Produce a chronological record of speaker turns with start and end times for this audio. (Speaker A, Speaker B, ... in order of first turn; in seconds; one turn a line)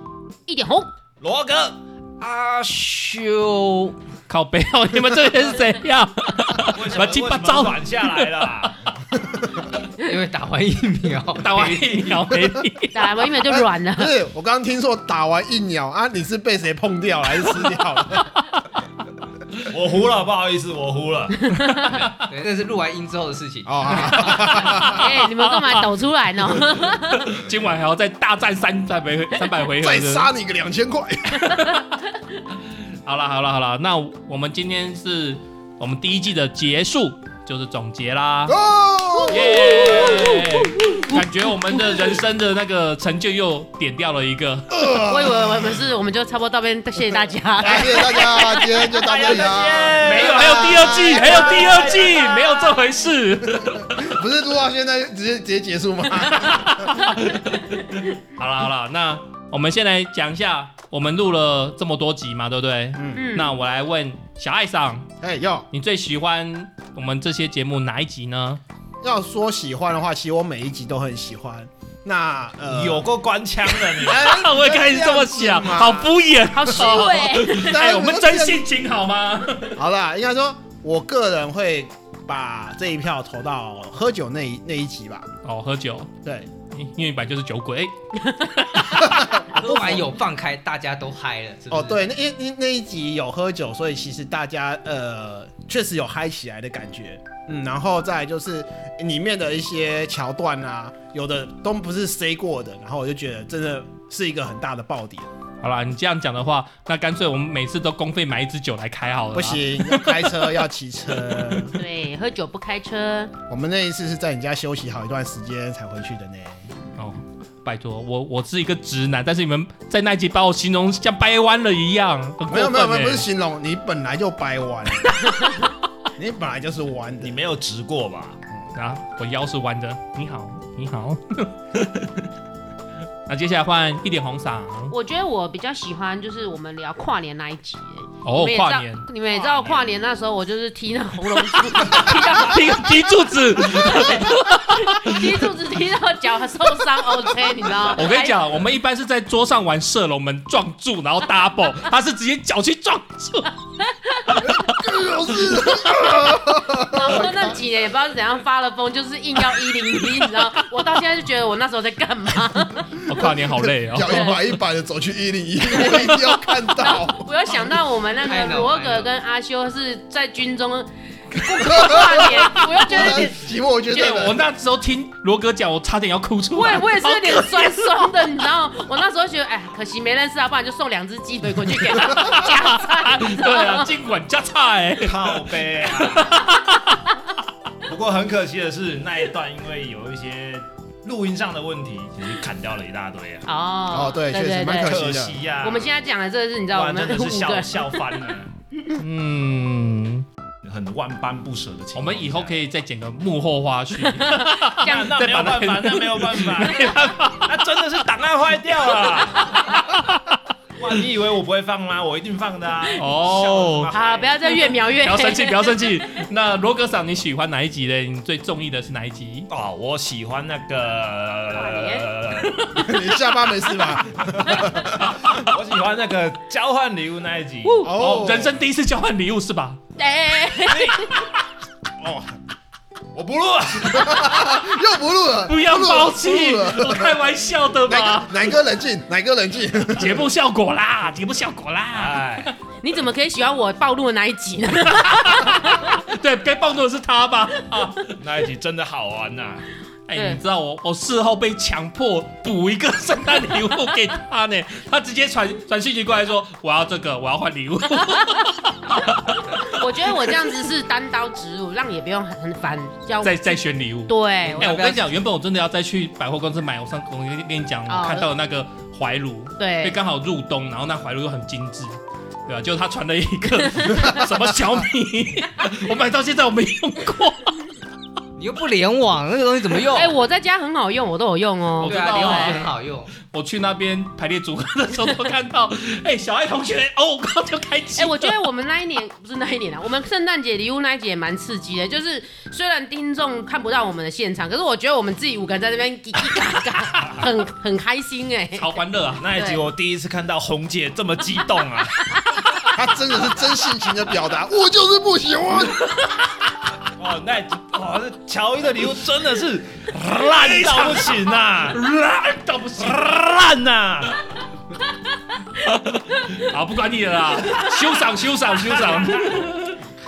Speaker A: 0.5-0.9
Speaker B: 1.2-1.8
Speaker C: 2.2-4.0
Speaker D: 4.3-8.7
Speaker B: 6.6-8.8
Speaker E: 9.2-9.6
Speaker C: 10.0-12.2
Speaker D: 11.4-13.0
Speaker A: 12.9-14.1
Speaker E: 13.4-18.4
Speaker B: 19.7-21.5
Speaker A: 21.5-22.0
Speaker D: 21.7-22.0
Speaker C: 21.9-24.8
Speaker E: 23.6-25.0
Speaker D: 24.9-25.8
Speaker A: 24.9-27.4
Speaker D: 26.8-30.3
Speaker E: 29.8-31.6
Speaker D: 31.5-32.0
Speaker D: 32.9-38.5
Speaker E: 38.5-40.1
Speaker A: 39.1-42.1
Speaker D: 39.3-44.7
Speaker E: 44.7-45.8
Speaker A: 45.0-49.0
Speaker E: 47.6-51.9
Speaker B: 48.9-52.2
Speaker D: 50.0-54.2
Speaker A: 52.2-52.6
Speaker E: 53.7-57.0
Speaker D: 56.2-65.1
Speaker E: 63.0-63.2
Speaker A: 63.1-63.5
Speaker E: 65.2-65.7
Speaker D: 65.7-68.6
Speaker E: 69.0-73.1
Speaker B: 72.7-74.2
Speaker D: 73.9-79.8
Speaker E: 74.0-76.1
Speaker A: 76.5-77.8
Speaker E: 76.7-78.6
Speaker E: 79.7-85.3
Speaker D: 85.4-86.1
Speaker E: 86.2-86.5
Speaker D: 86.7-89.0
Speaker E: 88.9-90.1
Speaker C: 89.4-92.0
Speaker E: 91.7-105.3
Speaker D: 105.6-110.2
Speaker E: 109.3-111.8
Speaker A: 111.7-113.3
Speaker E: 113.5-116.7
Speaker D: 117.0-123.2
Speaker E: 122.5-125.2
Speaker E: 126.2-127.4
Speaker B: 127.2-128.4
Speaker D: 128.7-132.3
Speaker D: 133.3-134.9
Speaker A: 134.9-148.4
Speaker D: 138.2-139.1
Speaker E: 139.3-139.9
Speaker D: 141.7-145.4
Speaker D: 147.9-153.6
Speaker A: 154.1-154.4
Speaker E: 154.4-157.6
Speaker A: 156.9-163.0
Speaker D: 163.1-164.4
Speaker E: 163.1-167.3
Speaker A: 164.1-164.3
Speaker A: 165.7-173.4
Speaker C: 168.2-169.1
Speaker D: 171.4-173.2
Speaker E: 171.7-172.3
Speaker E: 172.9-174.4
Speaker D: 173.9-178.1
Speaker A: 176.5-183.9
Speaker D: 181.8-187.0
Speaker B: 185.0-186.4
Speaker B: 187.8-193.5
Speaker A: 193.4-195.0
Speaker E: 193.9-195.4
Speaker B: 194.8-195.9
Speaker A: 195.6-198.0
Speaker B: 196.7-198.5
Speaker D: 198.9-200.2
Speaker B: 200.6-202.6
Speaker D: 201.9-207.6
Speaker A: 204.0-205.1
Speaker B: 204.8-209.8
Speaker D: 209.9-210.4
Speaker B: 210.8-214.5
Speaker D: 212.9-213.9
Speaker A: 213.9-216.0
Speaker D: 214.8-219.5
Speaker B: 219.5-222.7
Speaker A: 221.5-222.1
Speaker E: 222.8-225.1
Speaker B: 225.3-227.9
Speaker A: 227.6-227.9
Speaker E: 227.8-228.6
Speaker D: 227.8-229.8
Speaker A: 230.0-231.2
Speaker B: 230.6-231.1
Speaker E: 232.0-232.4
Speaker B: 233.1-234.2
Speaker E: 233.9-237.2
Speaker D: 235.4-238.6
Speaker E: 237.9-240.2
Speaker D: 239.9-242.6
Speaker B: 241.9-242.5
Speaker A: 242.8-246.0
Speaker D: 244.9-248.1
Speaker B: 248.2-249.7
Speaker D: 250.1-259.7
Speaker A: 250.1-250.4
Speaker A: 258.1-258.5
Speaker A: 259.0-264.8
Speaker D: 263.2-277.6
Speaker C: 264.4-265.1
Speaker A: 267.9-268.3
Speaker A: 269.6-270.0
Speaker C: 278.4-280.2
Speaker A: 279.9-282.7
Speaker D: 281.8-288.4
Speaker C: 281.9-283.1
Speaker A: 288.0-298.8
Speaker D: 298.5-299.2
Speaker B: 299.2-302.1
Speaker A: 299.3-299.6
Speaker E: 302.8-305.8
Speaker B: 306.9-311.8
Speaker D: 309.9-313.1
Speaker B: 312.8-314.2
Speaker D: 315.6-319.8
Speaker B: 318.9-319.2